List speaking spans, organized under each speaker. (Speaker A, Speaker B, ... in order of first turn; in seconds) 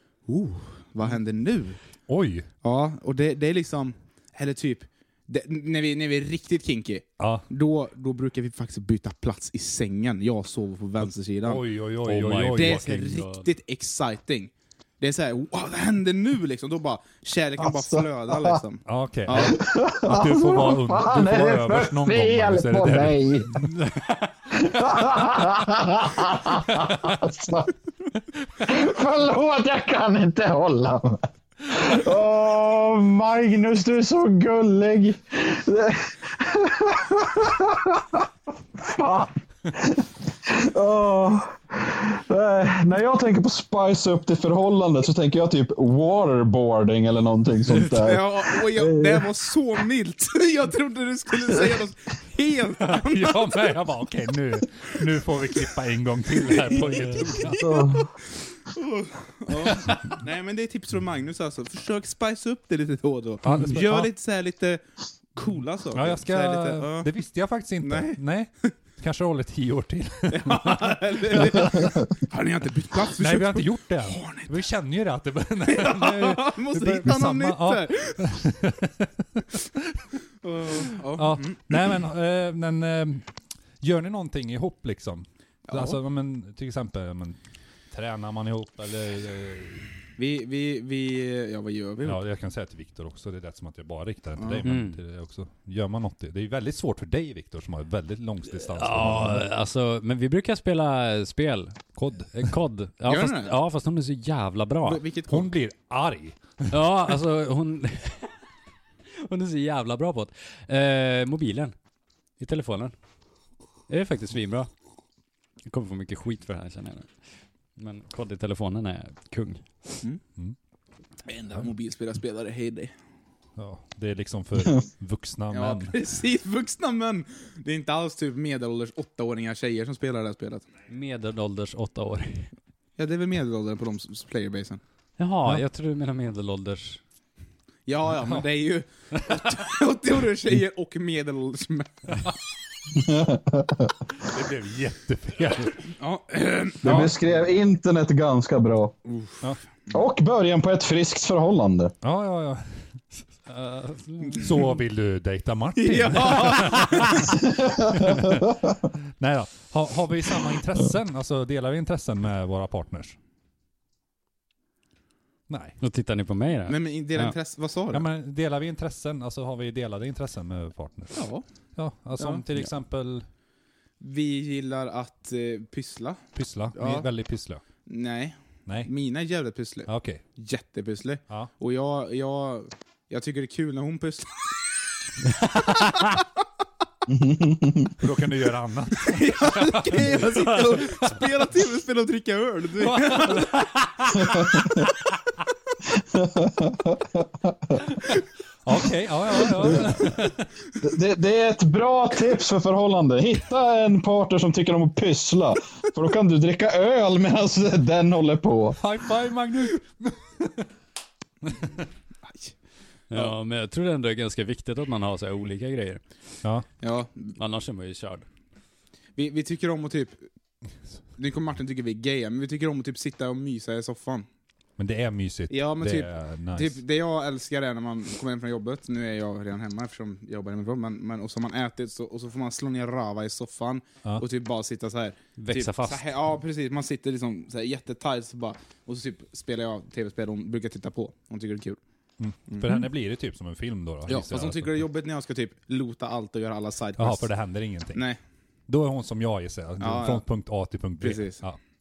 Speaker A: 0.3-1.8, 2.6-11.6, 12.5-19.6, 47.9-53.6, 56.5-64.8, 65.4-67.1, 67.8-68.2, 70.3-74.5, 75.7-78.2, 80.4-81.9, 85.7-86.0, 90.2-92.2, 94.4-94.7, 103.1-103.6, 104.8-105.5, 121.3-122.9, 125.5-130.7, 133.0-134.8, 137.9-142.3, 145.9-147.2, 149.1-149.4, 155.8-157.4, 166.7-168.0, 171.1-171.4, 172.2-172.4, 174.0-176.2, 176.8-177.1, 177.9-184.4, 185.6-186.2, 189.0-193.7, 212.3-212.5, 216.8-217.3, 219.2-220.3, 221.2-224.3, 225.5-241.8, 242.5-242.9, 244.1-247.3, 249.8-250.2, 251.0-251.4
Speaker B: 2.1-2.5, 7.2-7.5, 11.4-13.0, 18.9-23.8, 26.8-27.1, 52.8-57.7, 59.6-60.0, 63.4-64.1, 65.9-72.1, 73.1-80.0, 81.2-83.3, 83.8-87.4, 87.9-89.9, 92.0-99.5, 102.0-102.5, 105.3-106.8, 123.6-126.0, 144.2-145.9, 152.0-152.8, 154.4-158.6, 159.2-163.2, 165.5-165.8, 167.9-171.2, 171.8-173.3, 176.3-177.6, 179.9-180.2, 188.0-191.1, 192.8-193.5, 198.7-200.4, 208.8-210.5, 224.8-226.8, 242.2-244.8, 247.0-248.0, 248.7-251.6
Speaker C: 12.0-13.5, 23.8-24.2, 56.8-57.4, 94.6-95.0, 98.6-105.0, 106.7-108.3, 109.2-111.8, 112.4-112.9, 113.9-114.7, 115.7-117.1, 117.8-120.0, 130.9-132.5, 135.2-137.0, 153.5-154.6, 165.8-167.3, 185.4-186.1, 193.6-194.1, 213.1-216.0, 217.4-218.3, 235.4-236.1
Speaker D: 17.6-18.6, 19.3-23.7, 24.5-27.7, 28.6-49.3, 57.5-58.1, 142.9-143.9, 146.8-148.9, 149.9-151.9, 157.5-158.5, 187.1-187.9, 194.2-194.8, 195.8-197.8, 199.6-199.9, 200.8-208.8